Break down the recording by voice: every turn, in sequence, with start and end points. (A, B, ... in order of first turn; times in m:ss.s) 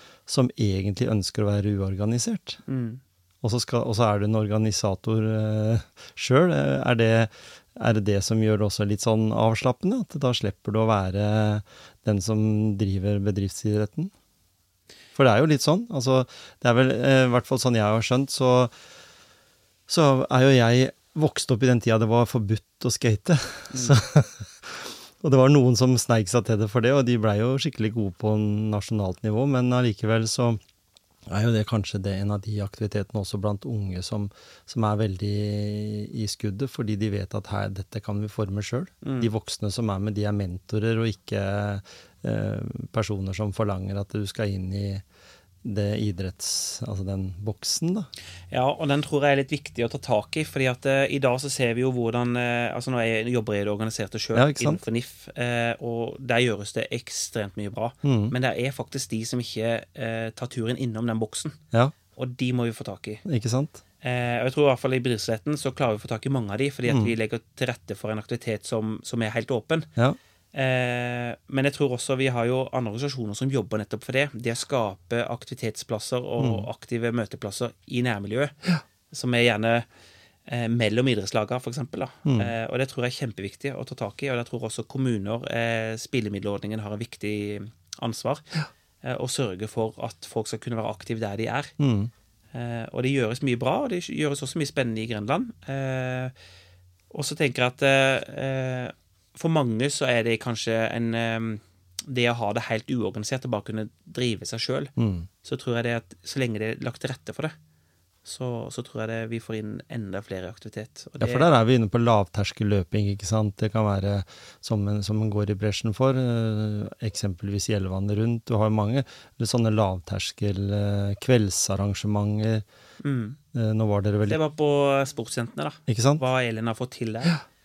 0:00.3-0:02.6 A
0:02.7-0:03.0 B
0:03.4-0:14.1 A
0:15.2-0:18.7 A
0:19.9-0:30.6 A
0:23.7-0:24.0 B
0:31.3-0:45.0 A
0:39.0-0:39.3 B
0:45.6-0:48.1 A
0:48.5-1:01.6 B
0:54.4-0:54.8 A
0:58.0-0:58.3 A
1:02.2-1:03.2 B
1:03.2-1:03.8 A
1:04.0-1:09.9 B
1:10.5-1:19.9 B
1:16.4-1:16.7 A
1:20.5-1:31.7 B
1:22.3-1:22.5 A
1:31.8-1:32.1 A
1:32.5-1:36.3 B
1:37.1-1:44.9 B
1:45.0-1:45.3 A
1:45.4-1:47.6 B
1:48.2-1:51.5 B
1:51.2-2:02.6 A
2:03.0-2:03.4 B
2:03.5-2:04.4 A
2:04.3-2:07.4 B
2:05.9-2:06.2 A